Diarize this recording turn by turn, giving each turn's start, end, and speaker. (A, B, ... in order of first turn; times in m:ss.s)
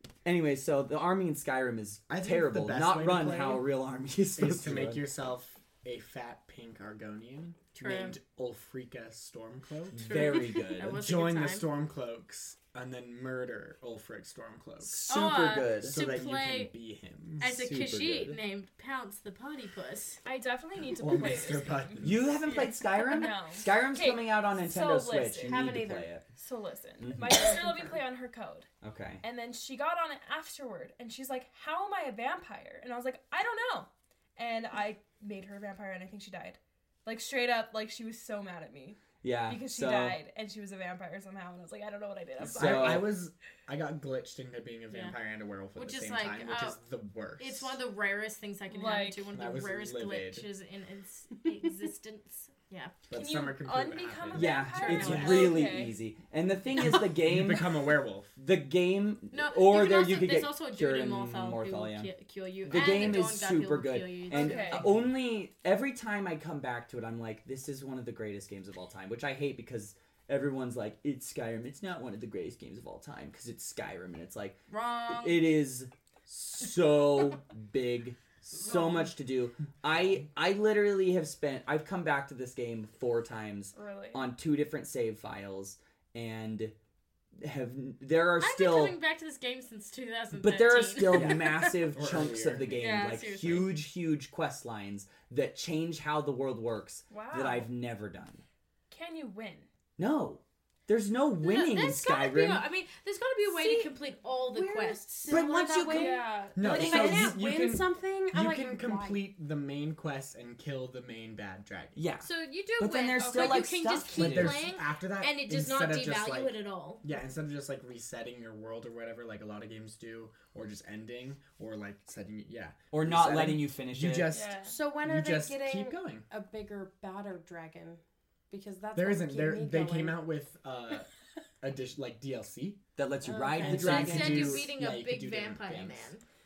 0:00.2-0:05.0 A
0:02.1-0:03.7 B
0:04.4-0:15.1 B
0:07.8-0:08.2 C
0:09.9-0:11.0 A
0:10.0-0:11.7 C
0:14.8-0:16.3 A
0:15.1-0:16.8 C
0:15.8-0:17.4 B
0:17.4-0:20.2 C
0:17.4-0:18.4 A
0:20.2-0:22.0 D
0:20.9-0:22.3 B
0:22.0-0:26.3 A
0:23.0-0:25.7 D
0:25.4-0:26.1 E
0:26.3-0:28.7 D
0:27.0-0:27.6 A
0:27.3-0:28.0 E
0:28.8-0:29.2 A
0:29.2-0:43.1 D
0:39.2-0:40.2 A
0:42.4-0:47.8 B
0:42.5-0:43.1 A
0:44.9-0:45.2 C
0:45.8-0:46.8 C
0:47.4-0:53.0 C
0:48.7-0:49.3 D
0:49.3-0:50.5 B
0:53.1-0:55.5 B
0:53.1-0:56.0 D
0:54.3-1:02.1 A
0:54.7-0:55.7 C
0:56.8-0:58.3 B
0:59.3-1:04.8 C
1:02.7-1:26.7 A
1:04.3-1:04.9 D
1:14.7-1:15.4 C
1:18.7-1:19.1 D
1:23.8-1:24.3 D
1:27.4-1:29.0 A
1:28.4-1:31.7 C
1:30.3-1:38.4 A
1:31.1-1:32.7 B
1:32.7-1:33.8 C
1:37.1-1:37.7 D
1:38.9-1:39.7 D
1:40.0-1:42.6 A
1:41.4-1:45.3 C
1:43.6-1:43.9 E
1:44.5-1:49.2 E
1:45.3-1:47.5 A
1:45.9-1:46.7 D
1:46.6-1:52.0 B
1:52.0-1:54.6 A
1:52.2-1:57.0 C
1:53.2-1:53.7 D
1:54.1-2:06.3 B
2:02.9-2:04.3 A
2:04.3-2:04.8 D
2:04.7-2:10.2 E
2:08.9-2:11.1 B
2:11.6-2:12.8 B
2:13.0-2:14.7 A
2:13.3-2:14.1 E
2:13.3-2:16.2 C
2:13.6-2:16.1 B